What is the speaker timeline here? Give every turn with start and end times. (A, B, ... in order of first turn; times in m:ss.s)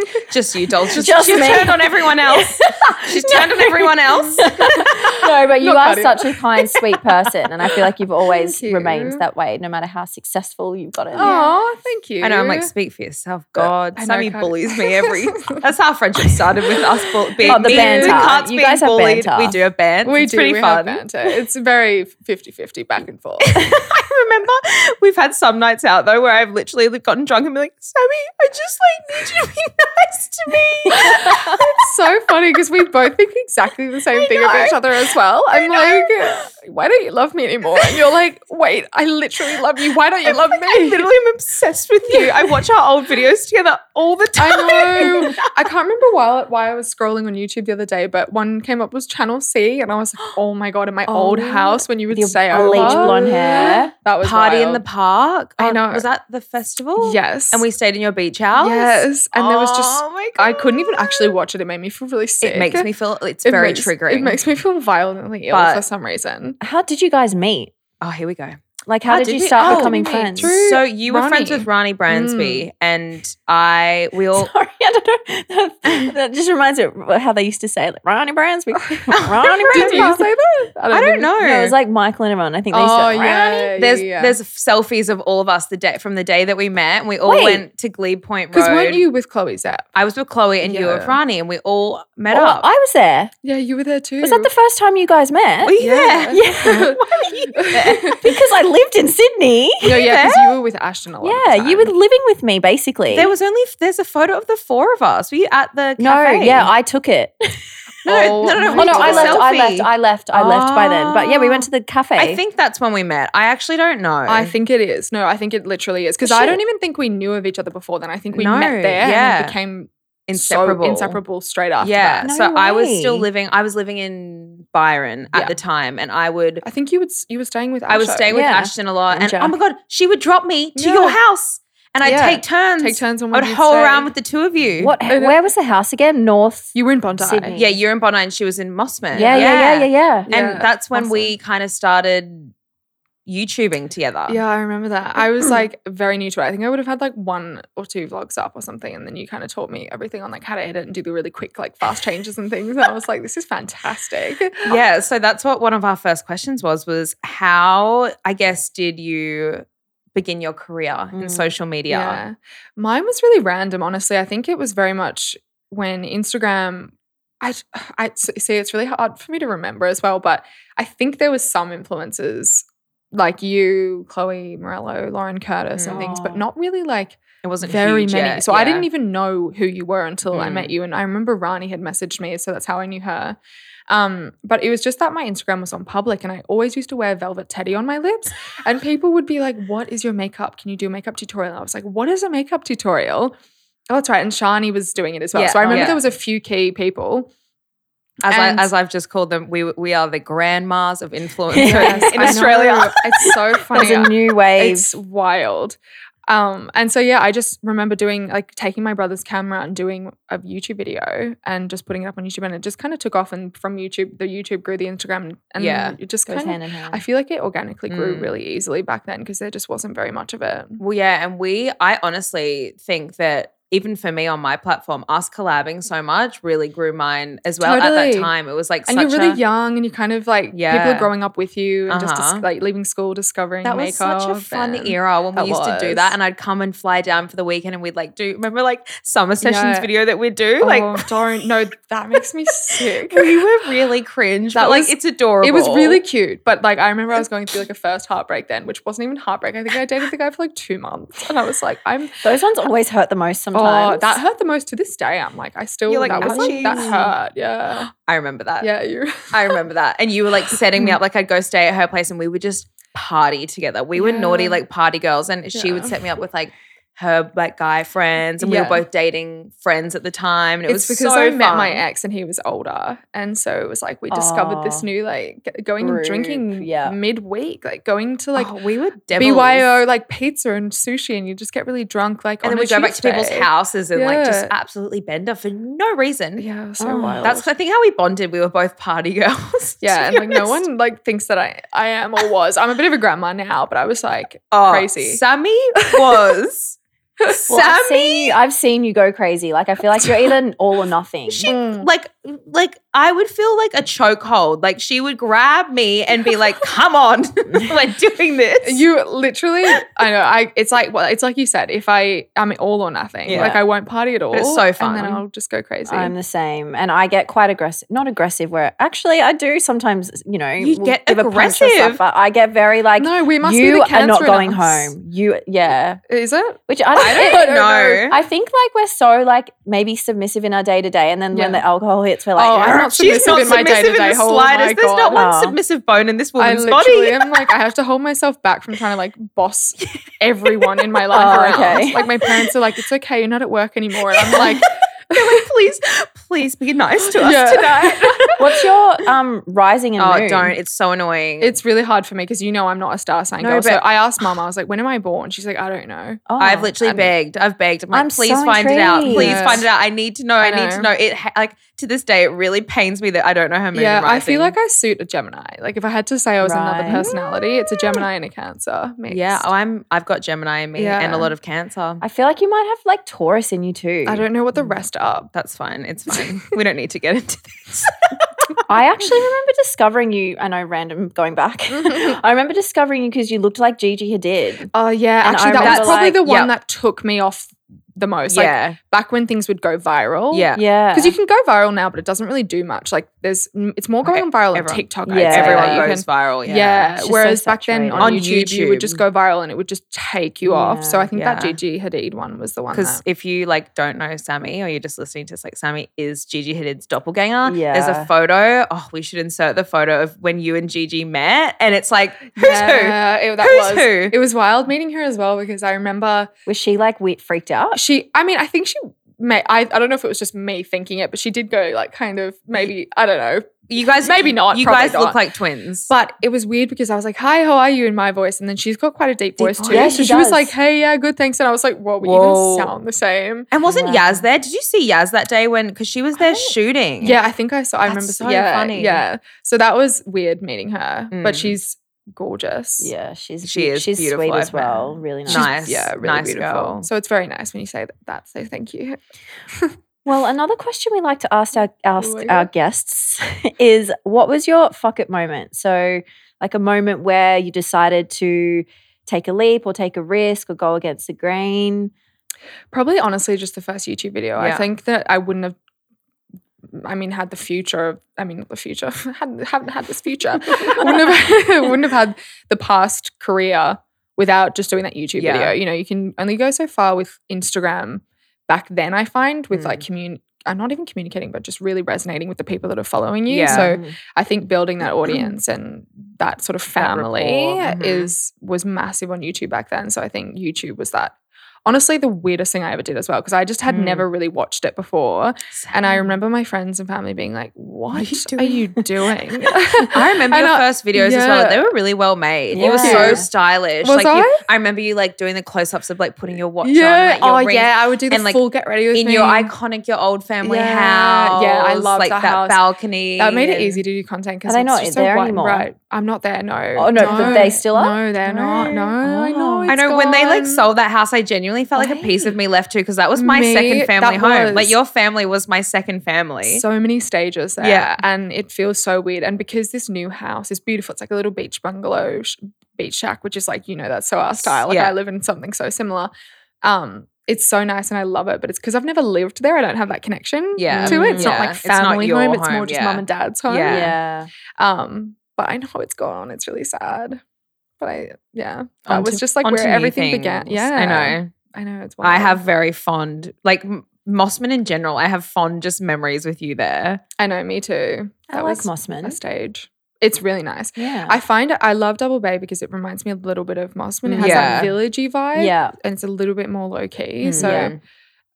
0:00.3-0:04.4 A
0:01.0-0:11.3 B
0:04.1-0:07.0 C
0:08.3-0:09.2 C
0:11.1-0:12.7 C
0:11.1-0:11.5 A
0:12.2-0:21.0 A
0:13.5-0:15.6 C
0:17.4-0:18.3 C
0:17.5-0:19.6 B
0:20.0-0:23.6 C
0:23.5-0:31.8 A
0:30.9-0:41.1 C
0:34.1-0:34.8 A
0:35.5-0:36.4 A
0:40.2-0:45.4 A
0:44.4-0:54.8 C
0:51.1-0:51.8 A
0:52.1-0:53.9 B
0:52.5-1:01.3 A
0:55.6-0:56.0 C
0:57.0-0:57.7 C
0:58.6-1:02.9 C
1:02.4-1:04.4 A
1:03.4-1:06.6 C
1:05.5-1:05.8 A
1:06.6-1:07.7 B
1:08.0-1:14.5 A
1:08.9-1:10.5 B
1:09.6-1:12.6 C
1:14.4-1:20.2 B
1:19.2-1:20.2 A
1:19.7-1:21.3 C
1:20.9-1:21.7 A
1:21.4-1:23.7 B
1:22.7-1:24.4 C
1:23.8-1:29.1 A
1:27.2-1:27.6 B
1:28.5-1:29.9 C
1:29.9-1:32.7 A
1:30.6-1:31.2 C
1:32.3-1:33.3 B
1:33.4-1:34.5 C
1:34.2-1:35.8 B
1:35.6-1:38.2 A
1:35.8-1:38.3 C
1:36.3-1:37.0 B
1:38.2-1:40.0 B
1:39.8-1:41.9 C
1:39.9-1:40.6 A
1:41.2-1:43.3 B
1:43.1-1:46.7 A
1:46.0-1:47.6 B
1:48.0-1:49.4 C
1:48.0-1:54.5 A
1:48.6-1:52.4 B
1:54.3-2:02.3 C
1:56.2-1:56.6 B
1:58.3-1:59.6 A
2:00.3-2:01.2 A
2:01.8-2:06.6 A
2:02.2-2:03.3 B
2:06.6-2:08.3 C
2:07.9-2:14.9 A
2:08.3-2:09.6 B
2:10.7-2:11.2 C
2:12.0-2:14.1 C
2:14.8-2:17.8 B
2:15.1-2:15.4 C
2:16.7-2:17.6 C
2:17.5-2:22.5 A
2:19.1-2:20.3 B
2:19.2-2:19.6 C
2:20.3-2:21.3 C
2:23.2-2:24.4 A
2:24.3-2:34.8 C
2:34.7-2:42.2 A
2:41.1-2:41.5 B
2:41.9-3:03.4 C
2:55.8-2:56.1 A
2:55.9-2:56.4 B
2:57.4-2:58.9 A
3:00.3-3:00.7 A
3:03.9-3:13.3 C
3:13.9-3:17.3 C
3:15.3-3:16.0 A
3:15.7-3:16.0 B
3:18.2-3:22.9 A
3:18.3-3:18.7 C
3:21.5-3:22.4 B
3:21.6-3:40.8 C
3:23.2-3:25.0 B
3:35.6-3:36.0 A
3:36.3-3:37.0 B
3:37.9-3:38.3 A
3:40.8-3:49.4 A
3:47.6-3:48.3 C
3:48.8-3:56.1 C
3:50.5-3:51.1 A
3:51.9-3:52.4 A
3:53.6-4:01.0 A
3:59.4-3:59.9 C
4:00.6-4:03.4 C
4:03.1-4:06.0 A
4:04.5-4:12.1 C
4:12.2-4:14.2 B
4:13.5-4:17.9 C
4:15.9-4:17.1 A
4:16.1-4:17.0 B
4:18.1-4:18.7 A
4:18.6-4:19.6 C
4:19.3-4:31.8 A
4:24.0-4:24.6 C
4:25.5-4:25.9 C
4:28.4-4:28.8 C
4:30.7-4:38.5 C
4:34.1-4:34.9 B
4:35.8-4:37.0 B
4:38.4-4:39.8 A
4:39.1-4:44.5 C
4:42.4-4:50.6 A
4:46.4-4:47.5 C
4:46.8-4:47.4 B
4:49.8-4:55.2 C
4:54.5-4:58.4 A
4:56.0-4:56.2 C
4:57.5-5:01.5 B
5:01.3-5:08.8 A
5:01.4-5:01.9 C
5:08.6-5:16.1 C
5:13.2-5:13.6 A
5:14.3-5:15.2 A
5:15.9-5:26.0 B
5:20.6-5:22.0 A
5:23.0-5:24.9 C
5:26.1-5:28.0 C
5:26.7-5:27.5 B
5:27.0-5:28.2 A
5:28.1-5:33.1 B
5:31.3-5:31.6 C
5:32.4-5:35.3 C
5:32.9-5:37.3 A
5:35.1-5:35.6 B
5:36.4-5:45.4 C
5:41.1-5:42.0 B
5:44.2-5:44.6 A
5:45.1-5:48.4 A
5:47.0-5:48.5 C
5:48.4-5:50.5 B
5:50.0-5:51.5 A
5:51.4-5:56.2 C
5:53.4-5:53.8 A
5:56.3-5:56.8 B
5:56.4-6:04.5 A
5:56.8-5:57.1 C
5:57.9-5:59.6 B
5:59.0-5:59.6 C
6:00.4-6:00.9 C
6:03.7-6:09.5 C
6:06.4-6:07.0 B
6:09.1-6:12.0 A
6:10.7-6:11.3 C
6:12.0-6:14.2 B
6:14.0-6:15.3 C
6:15.3-6:18.3 A
6:18.7-6:24.7 B
6:21.7-6:22.2 C
6:24.7-6:43.0 C
6:25.2-6:26.2 B
6:25.6-6:26.5 A
6:28.3-6:28.8 A
6:30.3-6:30.6 A
6:30.5-6:31.1 B
6:34.0-6:36.9 A
6:35.0-6:35.9 B
6:37.0-6:38.2 B
6:38.0-6:39.0 A
6:40.4-6:41.1 B
6:41.1-6:41.6 A
6:42.7-6:54.2 A
6:47.4-6:48.1 B
6:52.4-6:56.3 C
6:56.5-6:57.8 B
6:57.7-7:05.2 C
7:03.7-7:05.9 A
7:05.9-7:13.5 C
7:09.4-7:10.5 B
7:09.6-7:10.0 A
7:12.0-7:12.7 A
7:13.5-7:17.2 A
7:13.6-7:14.2 B
7:16.2-7:22.9 C
7:17.8-7:19.0 A
7:21.1-7:21.6 A
7:22.8-7:25.5 B
7:23.4-7:26.9 A
7:25.3-7:29.0 C
7:30.0-7:41.9 B
7:32.0-7:32.5 C
7:42.7-7:45.6 C
7:44.4-7:44.6 A
7:46.7-8:21.7 C
7:55.2-7:55.6 A
7:59.5-7:59.8 A
8:03.3-8:03.7 A
8:03.5-8:03.9 B
8:06.8-8:08.1 A
8:13.7-8:14.1 A
8:15.5-8:16.2 A
8:17.9-8:18.7 A
8:19.9-8:33.8 A
8:22.5-8:23.2 B
8:22.7-8:23.2 C
8:23.8-8:24.4 C
8:26.6-8:29.5 C
8:30.4-8:32.6 C
8:33.2-8:40.6 C
8:34.4-8:35.7 B
8:36.8-8:38.0 B
8:36.9-8:37.6 A
8:38.2-8:38.9 A
8:39.0-8:39.7 B
8:39.7-8:46.6 A
8:41.8-8:42.3 C
8:43.2-8:44.8 C
8:46.4-8:56.1 C
8:47.6-8:48.0 A
8:54.3-8:54.9 A
8:56.6-9:03.9 C
9:00.6-9:03.9 A
9:00.7-9:01.3 B
9:03.6-9:04.3 B
9:04.6-9:07.2 C
9:07.8-9:12.4 C
9:08.8-9:11.3 A
9:12.0-9:17.0 A
9:17.2-9:27.8 C
9:18.3-9:19.2 B
9:20.8-9:21.2 B
9:24.1-9:24.7 B
9:24.1-9:24.7 A
9:25.3-9:25.7 B
9:27.2-9:27.8 A
9:27.4-9:27.7 B